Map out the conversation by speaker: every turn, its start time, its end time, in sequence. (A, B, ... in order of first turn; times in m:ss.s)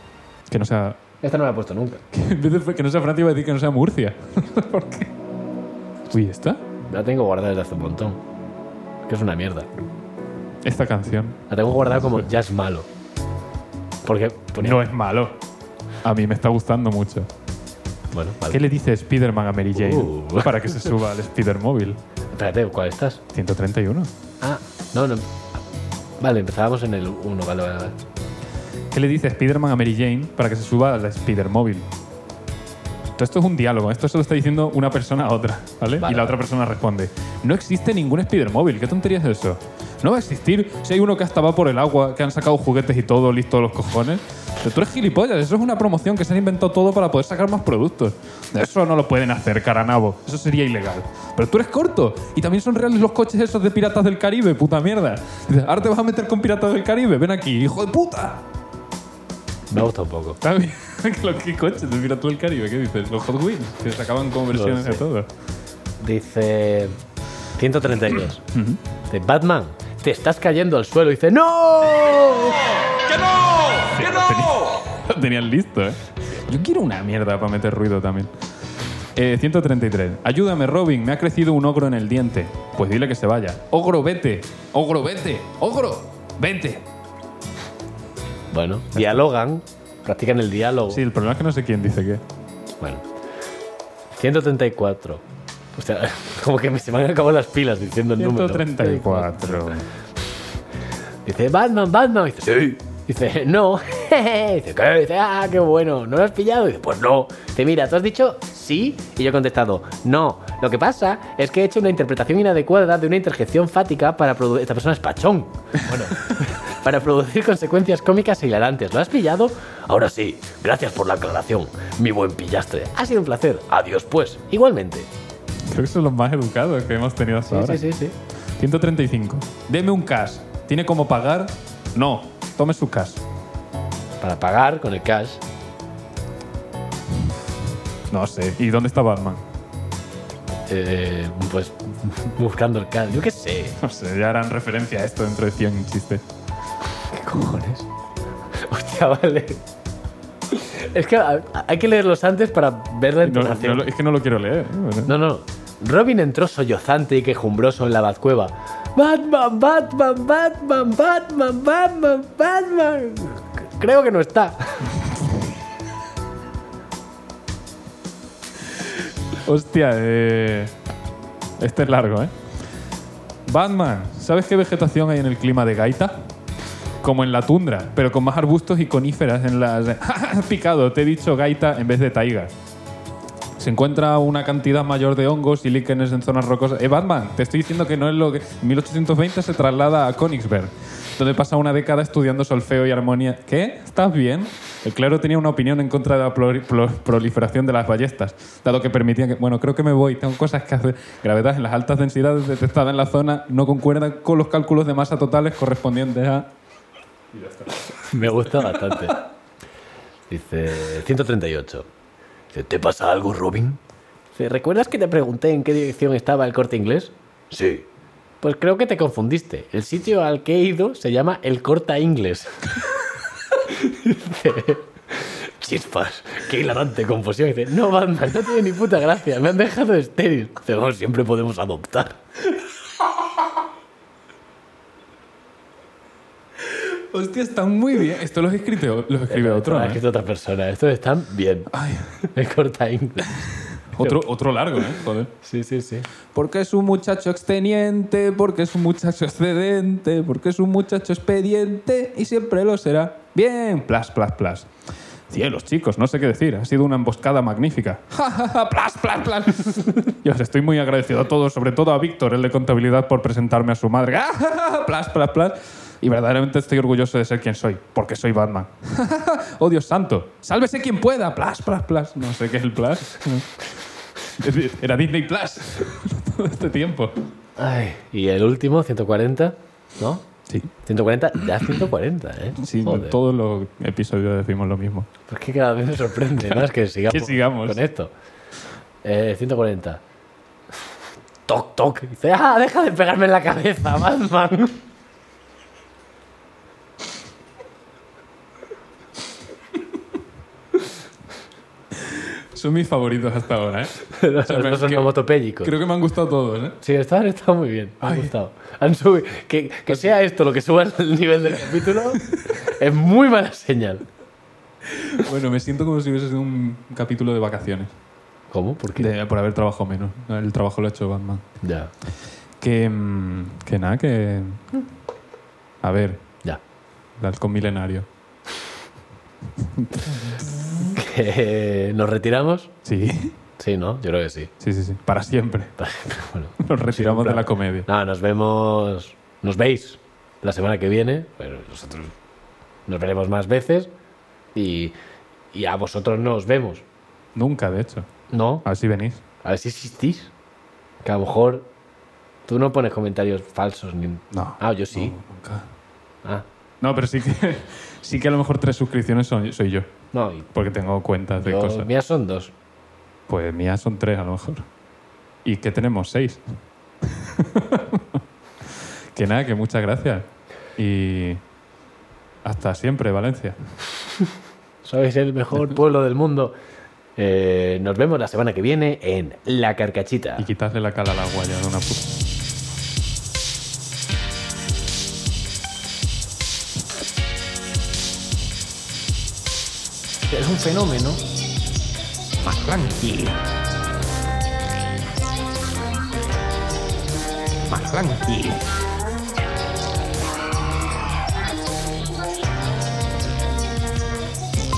0:00.5-0:01.0 A
0:01.2-0:02.0 B
0:02.1-0:05.1 A
0:06.1-0:06.6 A
0:06.9-0:08.2 B
0:09.1-0:09.7 B
0:10.6-0:11.4 A
0:11.5-0:12.9 B
0:14.0-0:14.8 B
0:14.6-0:15.4 A
0:16.0-0:17.3 A
0:18.1-0:18.6 B
0:18.5-0:22.0 A
0:19.7-0:20.8 B
0:22.3-0:23.2 B
0:23.3-0:24.1 A
0:24.4-0:25.3 B
0:26.2-0:28.0 B
0:28.9-0:31.9 A
0:33.2-0:58.4 A
0:36.0-0:36.4 B
0:59.7-1:00.4 B
1:00.4-1:05.3 A
1:04.5-1:05.0 B
1:06.0-1:07.0 B
1:07.6-1:08.4 B
1:08.5-1:08.8 A
1:09.1-1:12.7 B
1:13.1-1:18.3 A
1:19.1-1:26.8 A
1:28.5-1:31.0 B
1:30.9-1:32.2 A
1:34.2-1:35.2 B
1:35.7-1:39.8 B
1:38.2-1:39.8 A
1:41.2-2:05.1 B
2:05.7-2:07.8 A
2:07.5-2:08.2 B
2:08.6-2:13.2 A
2:14.2-2:15.4 B
2:18.1-2:19.4 A
2:20.7-2:23.8 B
2:23.8-2:26.2 A
2:27.1-2:27.9 B
2:28.6-2:29.6 B
2:30.5-2:33.9 B
2:33.2-2:35.1 A
2:35.0-2:44.9 B
2:49.4-2:50.7 A
2:51.6-2:52.3 A
2:53.4-2:56.3 A
2:57.0-3:02.5 A
3:03.6-3:26.5 A
3:27.3-3:29.2 A
3:28.0-3:29.2 B
3:30.3-3:31.9 B
3:32.5-3:33.8 B
3:34.4-3:37.9 B
3:38.4-3:42.9 B
3:43.5-3:52.2 B
3:56.6-4:00.0 A
3:59.3-4:01.7 B
4:01.7-4:02.3 A
4:02.2-4:04.2 B
4:03.2-4:05.3 A
4:05.4-4:06.1 B
4:06.3-4:14.7 A
4:15.3-4:33.6 A
4:34.2-4:37.2 A
4:37.6-4:40.2 B
4:40.8-4:43.2 B
4:42.6-4:45.1 A
4:45.3-4:48.1 B
4:47.1-4:47.8 A
4:49.0-4:50.0 B
4:51.5-4:54.8 B
5:02.0-5:06.8 A
5:04.0-5:05.7 B
5:06.8-5:14.0 B
5:08.0-5:08.3 A
5:11.9-5:12.5 A
5:14.9-5:17.9 A
5:18.5-5:19.1 B
5:19.0-5:21.4 A
5:21.6-5:21.9 B
5:22.6-5:24.7 A
5:25.8-5:26.2 A
5:27.2-5:28.1 A
5:29.6-5:30.5 A
5:30.8-5:32.7 B
5:32.8-5:33.3 A
5:33.6-5:34.5 B
5:34.6-5:35.7 A
5:35.8-5:42.1 B
5:36.6-5:37.9 A
5:42.9-5:43.9 B
5:44.5-5:44.9 B
5:45.5-5:46.8 B
5:47.3-5:48.1 A
5:48.3-5:48.6 B
5:48.6-5:49.2 A
5:49.4-5:50.3 B
5:51.0-5:51.7 B
5:52.5-5:55.1 B
5:54.3-5:55.7 A
5:56.8-5:59.9 A
6:00.1-6:00.5 B
6:00.5-6:01.9 A
6:01.4-6:02.5 B
6:03.3-6:04.7 A
6:05.4-6:06.4 A
6:07.0-6:08.2 A
6:09.1-6:10.2 A
6:10.8-6:11.4 A
6:12.4-6:13.6 A
6:14.8-6:16.5 B
6:17.2-6:20.5 B
6:20.4-6:22.2 A
6:30.3-6:31.2 B
6:32.4-6:33.4 C
6:37.7-6:38.6 C